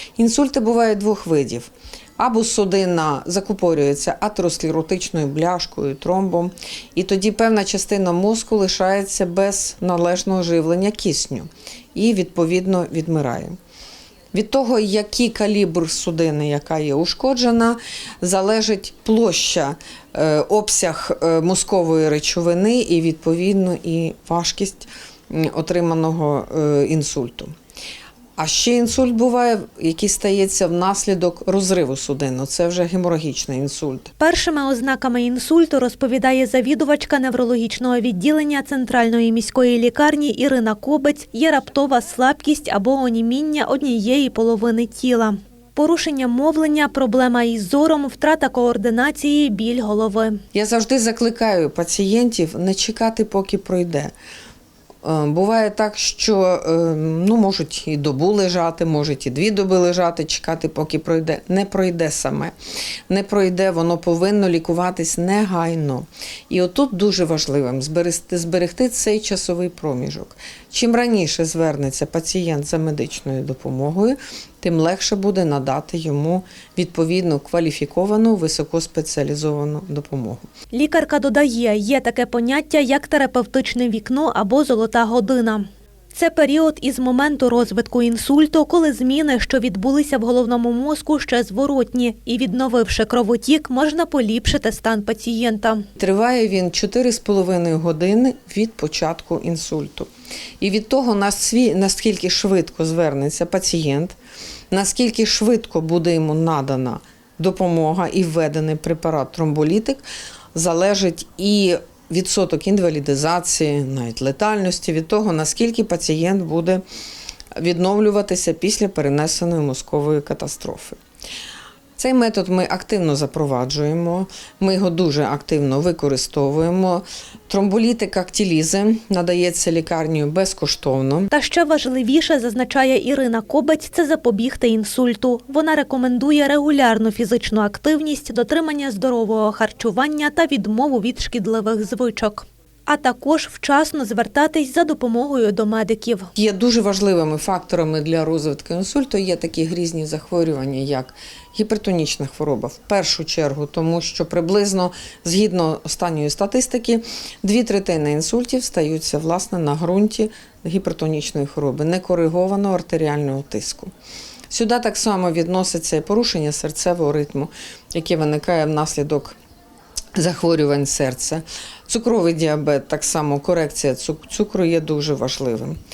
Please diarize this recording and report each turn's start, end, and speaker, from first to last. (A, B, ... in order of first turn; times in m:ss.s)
0:00.2-0:13.6 A
0:14.3-0:27.5 A
0:28.4-0:34.1 A
0:34.2-0:50.4 B
0:50.5-0:54.1 A
0:55.0-1:02.5 A
1:03.1-1:20.4 A
1:20.7-1:35.9 B
1:36.0-1:40.1 A
1:40.6-1:44.2 A
1:44.7-1:56.8 A
1:57.6-2:01.0 A
2:02.0-2:11.3 A
2:11.3-2:26.3 B
2:26.4-2:43.9 A
2:44.5-2:49.4 A
2:50.1-2:55.8 A